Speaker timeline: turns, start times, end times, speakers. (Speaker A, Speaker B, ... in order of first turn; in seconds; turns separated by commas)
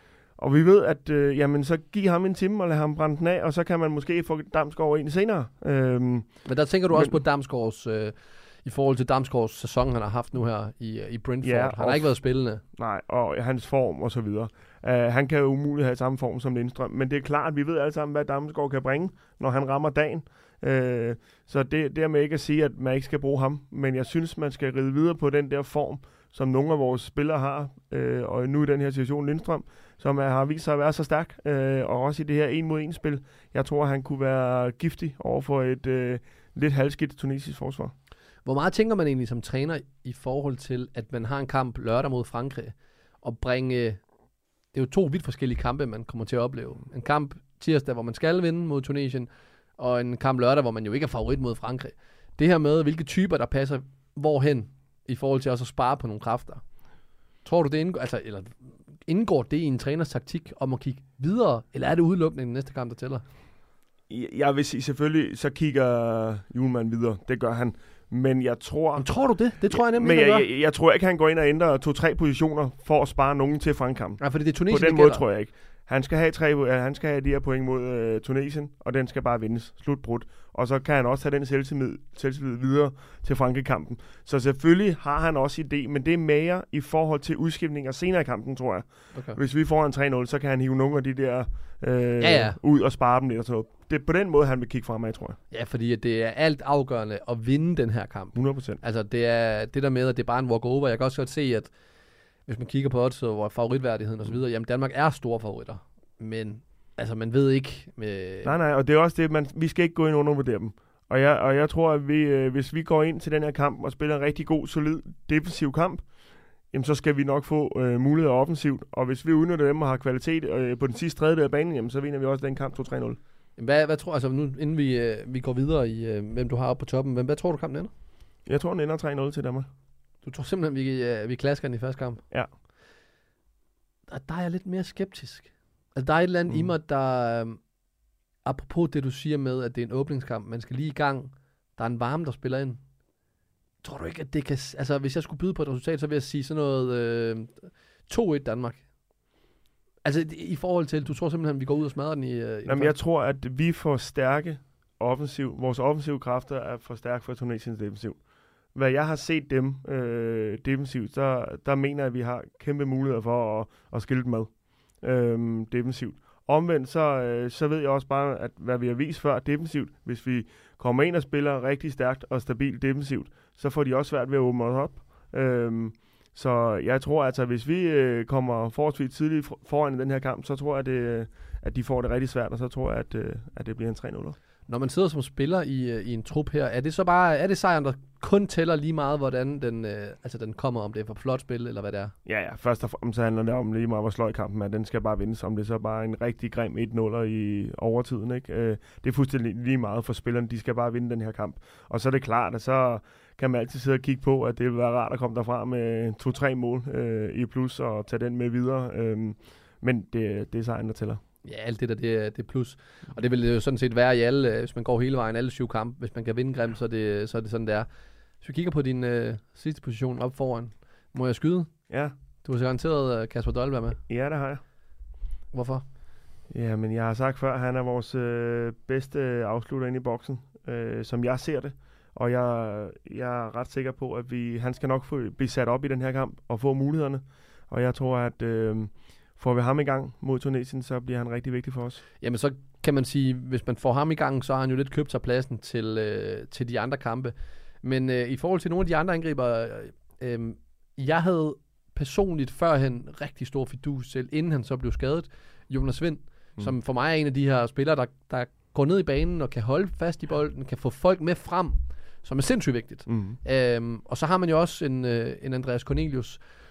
Speaker A: 0.4-7.2, Speaker B: 6.5-12.6, Speaker A: 11.4-37.9, Speaker B: 38.5-44.0, Speaker B: 44.7-56.6, Speaker B: 57.5-63.2, Speaker A: 64.1-69.1, Speaker B: 69.0-70.5, Speaker A: 69.7-95.4, Speaker B: 74.2-75.2, Speaker B: 89.1-89.4, Speaker B: 92.2-92.6, Speaker B: 95.5-101.7, Speaker A: 98.3-98.8, Speaker B: 102.5-108.5, Speaker A: 108.4-116.1, Speaker A: 116.7-123.2, Speaker B: 123.6-127.9, Speaker A: 128.5-129.7, Speaker B: 130.2-132.2, Speaker B: 134.1-137.6, Speaker B: 138.4-142.8, Speaker B: 143.8-148.8, Speaker B: 150.0-153.0, Speaker A: 152.7-158.2, Speaker A: 158.7-184.4, Speaker B: 184.7-192.1, Speaker A: 192.3-211.2, Speaker B: 211.4-217.9, Speaker B: 218.4-221.7, Speaker A: 221.9-222.1, Speaker B: 222.4-224.0, Speaker A: 224.1-224.6, Speaker B: 225.5-225.8, Speaker A: 226.5-242.0, Speaker B: 242.2-266.4, Speaker A: 263.1-263.4